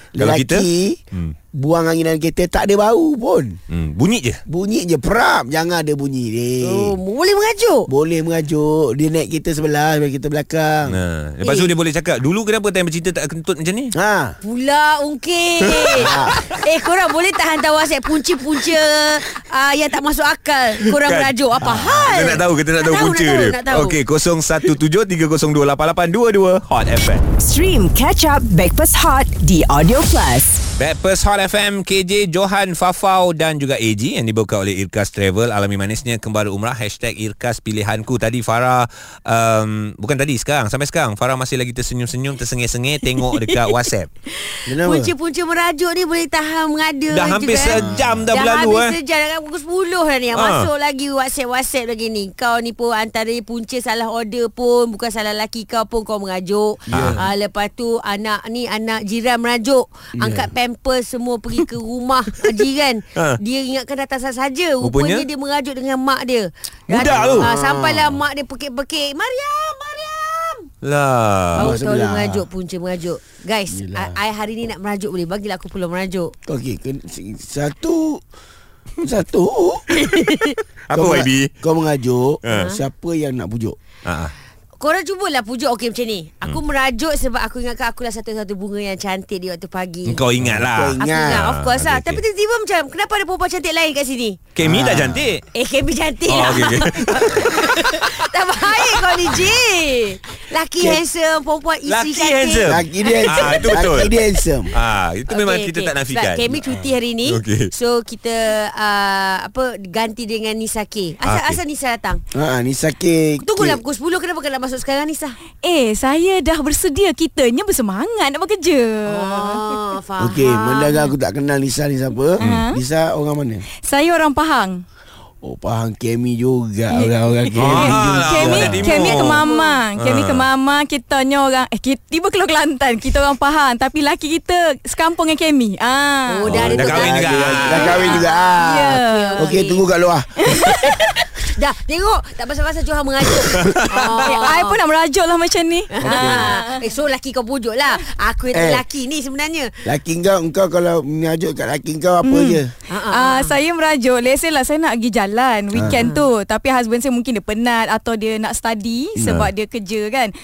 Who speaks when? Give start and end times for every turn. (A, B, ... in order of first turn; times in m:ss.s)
0:00.1-0:01.0 A
0:00.2-0:01.3 B
0:01.5-0:03.6 A
0:03.7-0:04.4 B
0:04.5-0:07.0 A
0:06.6-0:07.9 C
0:07.9-0:11.0 A
0:10.9-0:13.9 B
0:11.4-0:11.7 C
0:13.9-0:14.4 A
0:14.4-0:24.0 C
0:15.7-0:16.0 B
0:15.9-0:16.4 A
0:20.9-0:27.2 B
0:27.4-0:30.6 D
0:30.8-0:44.1 B
0:44.4-1:10.7 C
0:44.7-0:45.1 A
0:47.1-0:49.0 B
0:47.7-0:48.3 A
0:50.3-0:50.7 B
0:56.9-0:57.3 A
0:56.9-0:57.2 B
1:00.2-1:00.5 A
1:04.8-1:05.3 B
1:06.9-1:08.2 A
1:06.9-1:07.5 B
1:10.8-1:11.8 B
1:11.6-1:12.5 A
1:11.6-1:16.4 C
1:13.7-1:14.2 A
1:16.5-1:18.2 A
1:19.0-1:20.0 A
1:20.0-1:20.6 C
1:20.9-1:21.5 B
1:20.9-1:23.8 A
1:22.5-1:22.8 C
1:24.0-1:24.3 B
1:24.8-1:30.2 C
1:30.1-1:32.2 B
1:30.4-1:31.5 A
1:31.0-1:34.5 C
1:34.6-1:35.5 B
1:34.6-1:35.3 A
1:35.5-1:43.9 C
1:36.3-1:38.1 B
1:41.9-1:44.2 B
1:42.6-1:44.7 A
1:44.7-1:46.5 B
1:45.3-1:52.2 C
1:46.6-1:46.9 A
1:47.3-1:47.7 B
1:51.2-1:51.6 B
1:52.3-1:53.8 A
1:53.4-1:55.4 C
1:55.6-1:59.8 E
1:59.1-2:01.1 C
2:00.2-2:03.6 A
2:02.4-2:02.8 E
2:03.8-2:04.8 E
2:05.4-2:09.3 A
2:06.9-2:16.4 E
2:07.6-2:09.4 B
2:09.3-2:09.8 C
2:10.0-2:10.5 B
2:16.3-2:19.9 C
2:16.4-2:20.6 A
2:16.5-2:18.2 B
2:18.6-2:19.5 E
2:20.4-2:21.0 E
2:21.0-2:24.8 C
2:23.5-2:23.9 B
2:24.1-2:26.9 E
2:25.9-2:29.9 C
2:26.0-2:26.6 A
2:28.5-2:28.8 A
2:29.9-2:32.7 A
2:32.2-2:40.3 E
2:32.9-2:33.6 C
2:35.7-2:36.0 A
2:35.9-2:36.3 C